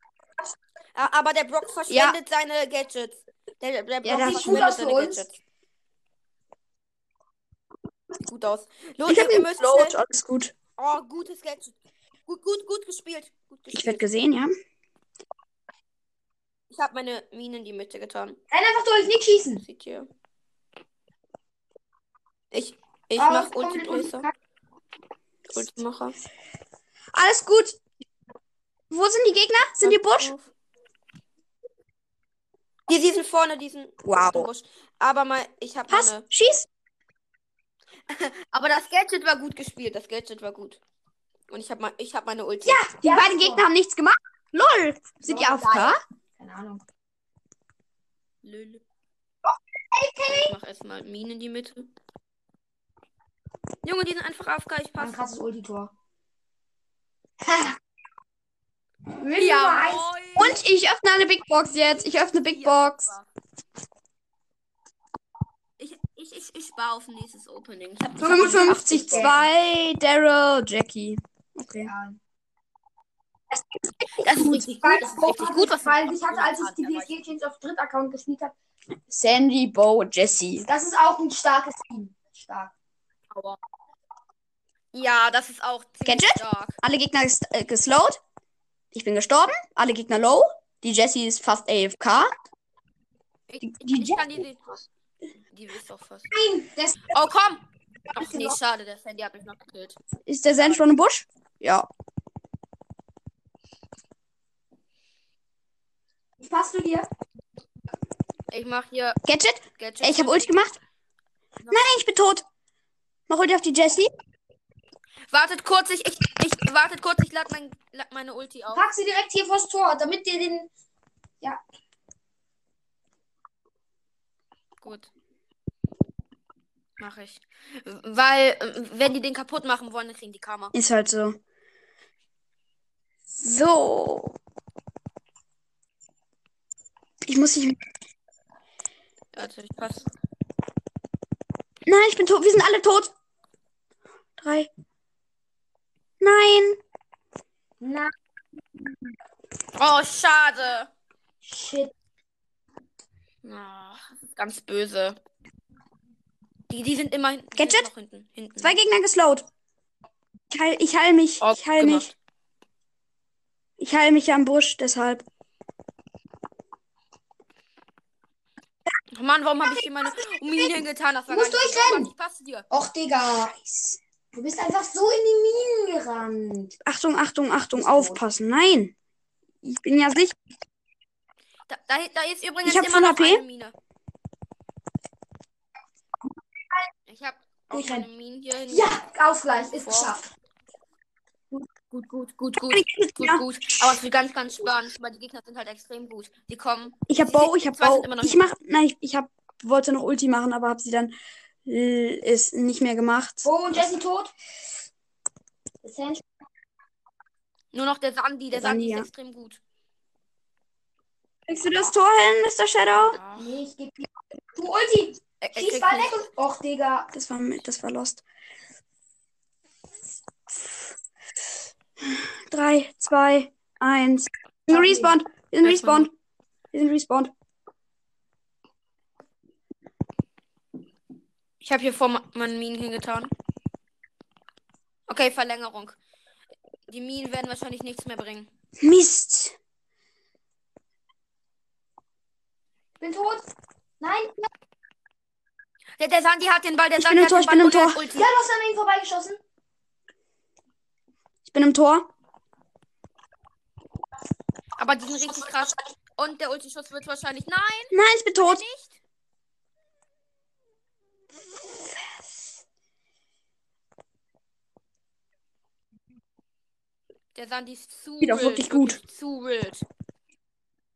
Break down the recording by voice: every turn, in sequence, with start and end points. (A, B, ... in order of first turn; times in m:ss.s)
0:00.9-0:05.3 A
0:01.9-0:02.2 B
0:04.0-0:04.6 B
0:04.1-0:05.2 C
0:08.3-0:10.0 A
0:09.0-0:10.5 B
0:10.8-0:11.7 A
0:12.2-0:14.0 A
0:13.7-0:14.5 B
0:16.7-0:18.4 A
0:18.5-0:19.6 C
0:19.6-0:20.1 A
0:22.5-0:24.3 A
0:23.2-0:24.3 C
0:25.5-0:26.2 A
0:27.1-0:27.8 B
0:28.9-0:30.3 B
0:29.8-0:30.5 A
0:32.9-0:36.2 A
0:34.0-0:34.4 B
0:35.9-0:36.7 B
0:38.1-0:40.8 A
0:41.5-0:42.8 A
0:42.6-0:46.0 B
0:42.9-0:43.6 C
0:45.2-0:46.8 C
0:48.4-0:48.8 A
0:49.4-0:50.6 C
0:50.3-0:51.9 A
0:53.8-0:55.2 A
0:55.0-0:55.9 C
0:57.4-0:57.8 C
0:59.2-1:00.1 C
0:59.3-1:00.6 A
1:00.4-1:03.1 B
1:02.5-1:03.2 A
1:05.8-1:09.4 A
1:08.2-1:11.9 B
1:08.3-1:09.4 C
1:11.8-1:12.2 C
1:13.5-1:13.8 B
1:14.2-1:17.1 A
1:14.4-1:18.5 C
1:19.1-1:20.6 B
1:20.6-1:22.7 C
1:23.3-1:23.6 A
1:24.9-1:26.8 A
1:26.0-1:28.2 B
1:28.9-1:32.3 B
1:33.5-1:34.8 A
1:33.6-1:34.3 B
1:35.5-1:36.3 A
1:36.3-1:37.2 C
1:37.1-1:40.0 A
1:38.2-1:38.5 C
1:40.2-1:41.9 B
1:46.4-1:47.1 C
1:48.5-1:49.2 A
1:49.2-1:50.8 B
1:49.8-1:50.5 A
1:51.6-1:51.9 A
1:51.7-1:52.4 B
1:53.3-1:54.1 B
1:55.3-1:58.8 A
1:58.7-2:00.7 C
2:04.8-2:05.1 A
2:07.0-2:10.7 A
2:10.7-2:11.4 B
2:13.4-2:14.3 B
2:17.2-2:17.8 B
2:19.3-2:20.1 A
2:21.8-2:23.1 B
2:24.4-2:24.7 B
2:26.2-2:26.8 B
2:27.8-2:28.1 C
2:29.8-2:30.9 A
2:31.4-2:31.9 C
2:33.4-2:35.2 A
2:36.7-2:38.8 A
2:37.6-2:37.9 B
2:38.6-2:39.5 B
2:40.5-2:42.1 B
2:41.4-2:42.1 A
2:43.8-2:45.2 B
2:49.1-2:52.6 A
2:51.3-2:52.1 C
2:52.7-2:53.6 C
2:53.6-2:54.0 B
2:54.3-2:56.7 C
2:56.8-2:58.9 B
2:57.7-2:58.2 C
2:59.6-3:00.4 B
3:01.7-3:03.7 A
3:02.6-3:03.4 B
3:07.1-3:09.0 A
3:07.7-3:08.1 C
3:08.7-3:10.2 C
3:09.6-3:10.2 A
3:11.5-3:18.5 A
3:12.7-3:13.9 B
3:17.1-3:21.1 B
3:21.6-3:23.8 B
3:23.4-3:24.3 C
3:25.8-3:26.2 C
3:27.7-3:29.6 A
3:28.5-3:29.1 B
3:31.5-3:33.2 B
3:32.9-3:33.6 A
3:33.4-3:37.1 C
3:35.4-3:36.2 A
3:37.1-3:38.2 B
3:40.5-3:40.8 B
3:42.0-3:46.1 B
3:44.7-3:45.1 C
3:45.6-3:46.1 A
3:46.7-3:47.3 B
3:51.6-3:53.3 A
3:55.1-3:56.0 A
3:56.9-3:58.5 A
3:58.8-3:59.5 B
4:03.0-4:03.4 C
4:04.0-4:04.5 C
4:06.0-4:08.3 A
4:07.0-4:08.0 B
4:08.1-4:09.4 C
4:11.4-4:12.1 B
4:14.8-4:19.0 A
4:17.9-4:18.6 B
4:27.3-4:29.8 A
4:28.2-4:29.0 B